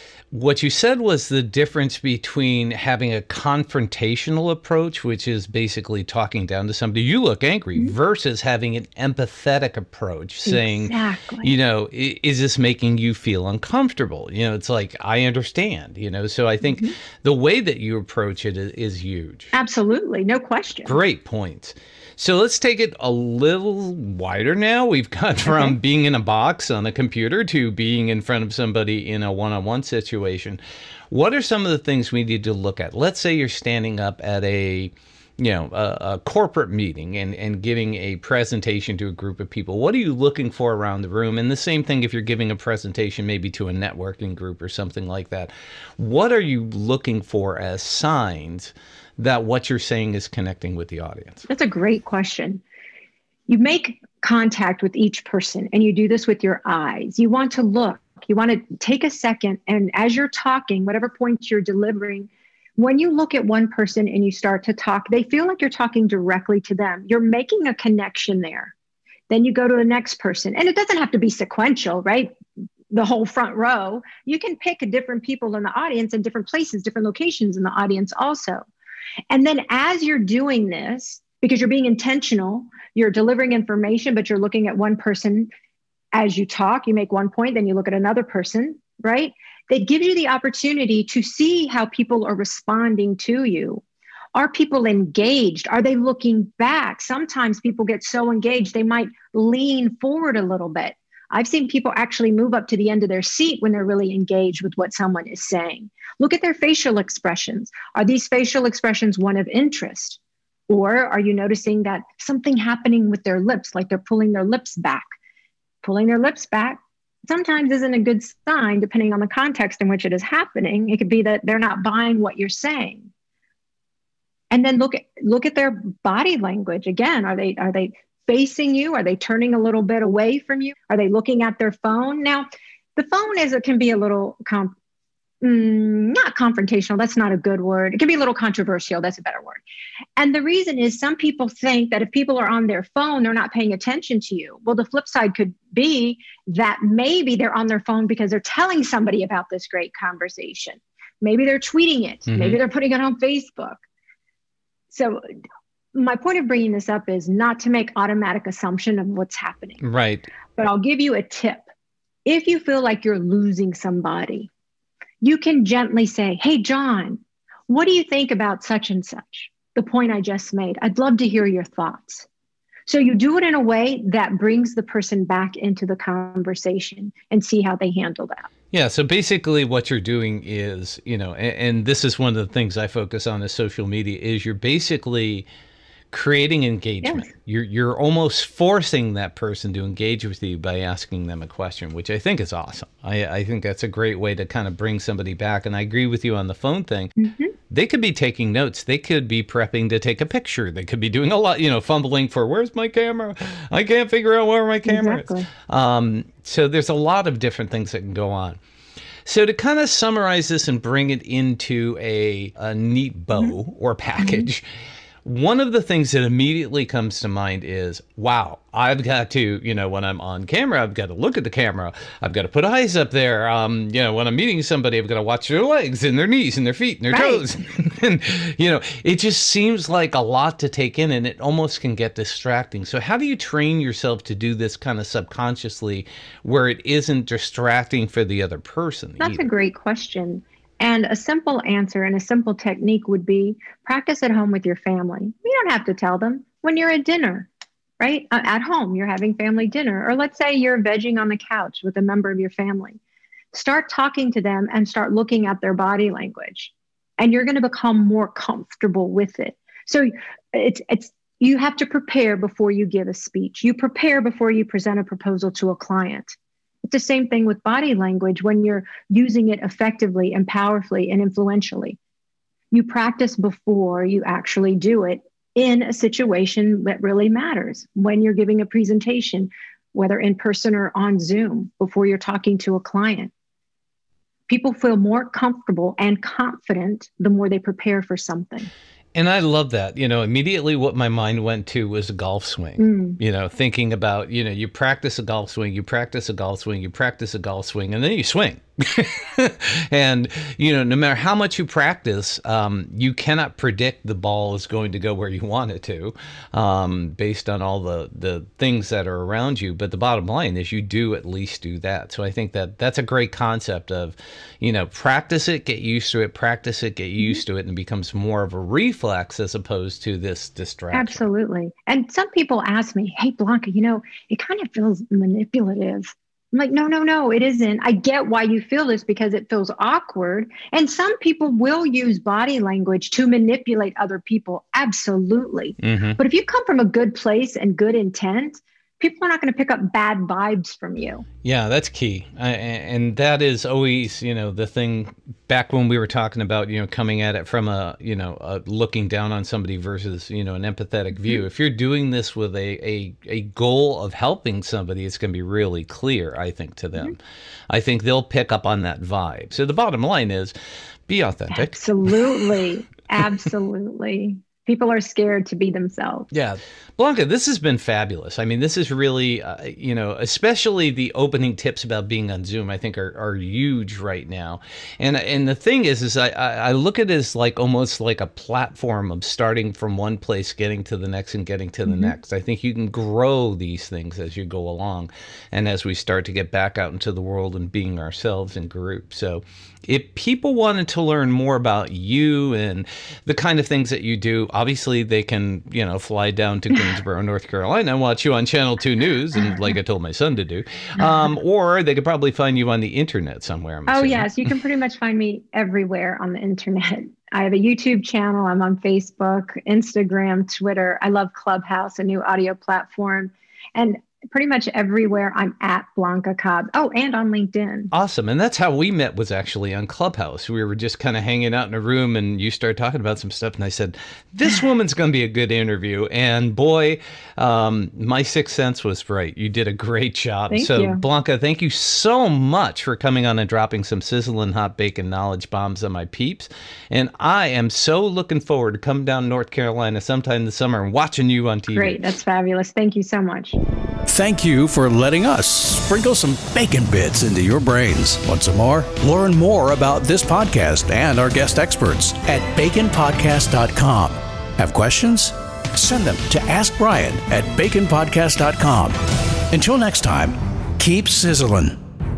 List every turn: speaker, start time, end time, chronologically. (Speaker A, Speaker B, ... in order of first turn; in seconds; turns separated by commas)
Speaker A: 0.3-19.5, Speaker B: 10.4-11.5, Speaker B: 16.6-16.9, Speaker B: 19.5-21.0, Speaker A: 20.9-30.6, Speaker B: 25.4-25.7, Speaker A: 31.1-51.4, Speaker B: 51.5-52.6, Speaker B: 53.5-68.7, Speaker B: 69.3-72.3, Speaker B: 72.9-78.6, Speaker B: 79.3-85.5, Speaker B: 86.1-93.8, Speaker B: 94.3-110.2, Speaker B: 110.7-115.1, Speaker B: 115.8-123.1, Speaker B: 124.5-134.7, Speaker B: 135.4-139.6, Speaker B: 140.2-153.8, Speaker A: 152.3-152.6, Speaker B: 154.9-155.2, Speaker B: 155.9-159.8, Speaker A: 159.8-160.3, Speaker B: 160.6-161.6, Speaker B: 162.2-164.5, Speaker B: 165.2-172.3, Speaker B: 172.9-178.5, Speaker A: 178.7-185.5, Speaker A: 186.1-197.2, Speaker B: 187.0-187.3, Speaker B: 197.2-197.5, Speaker A: 197.7-208.6, Speaker B: 204.8-205.5, Speaker A: 209.2-214.6, Speaker B: 214.2-214.4, Speaker A: 215.2-239.5, Speaker B: 227.1-227.4, Speaker B: 239.2-247.5, Speaker B: 248.0-253.0, Speaker B: 253.5-272.0, Speaker B: 272.7-283.3, Speaker B: 284.5-288.7, Speaker A: 289.1-321.2, Speaker B: 292.8-293.2, Speaker B: 320.9-341.2, Speaker A: 335.8-336.2, Speaker A: 341.4-357.2, Speaker A: 357.7-360.5, Speaker A: 361.1-362.6, Speaker B: 361.5-366.3, Speaker A: 366.3-404.3, Speaker B: 381.9-382.1, Speaker B: 403.9-417.9, Speaker A: 417.9-442.1, Speaker B: 430.5-431.0, Speaker B: 441.7-443.6, Speaker C: 444.1-459.0, Speaker C: 459.5-461.8